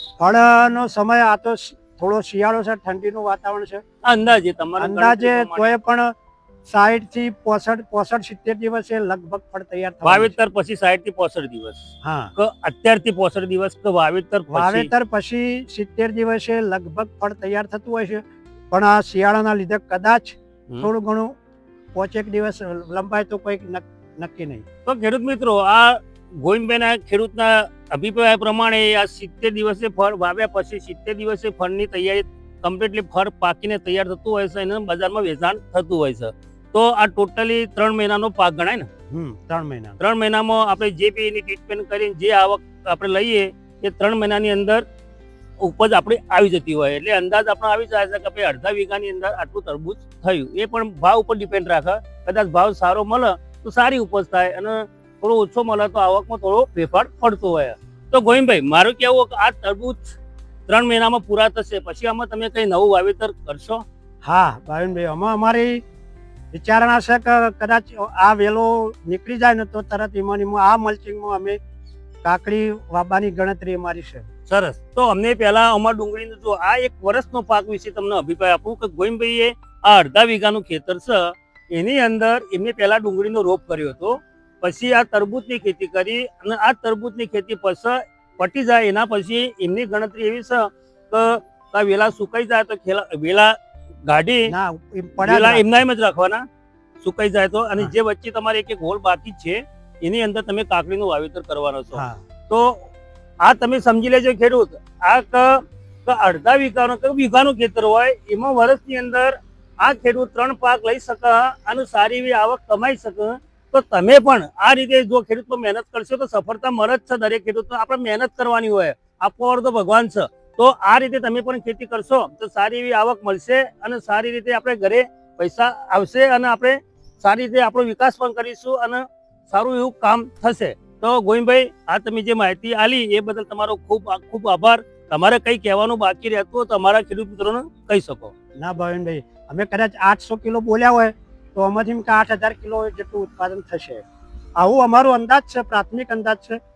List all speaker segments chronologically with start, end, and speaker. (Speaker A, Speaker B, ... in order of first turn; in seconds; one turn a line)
Speaker A: 0.2-3.8
Speaker B: 4.0-5.8
Speaker A: 4.8-6.1
Speaker A: 6.7-10.3
Speaker B: 10.0-14.9
Speaker A: 12.0-12.3
Speaker A: 14.5-21.3
Speaker A: 21.9-24.6
Speaker B: 24.9-38.9
Speaker A: 39.1-40.0
Speaker B: 40.0-44.8
Speaker B: 45.6-63.8
Speaker A: 64.2-65.8
Speaker A: 66.5-71.6
Speaker A: 72.2-74.2
Speaker B: 74.5-93.5
Speaker B: 94.1-94.5
Speaker A: 94.5-95.8
Speaker B: 95.2-96.4
Speaker B: 97.0-102.9
Speaker A: 101.9-102.2
Speaker B: 103.4-138.3
Speaker A: 138.6-144.0
Speaker A: 144.6-146.6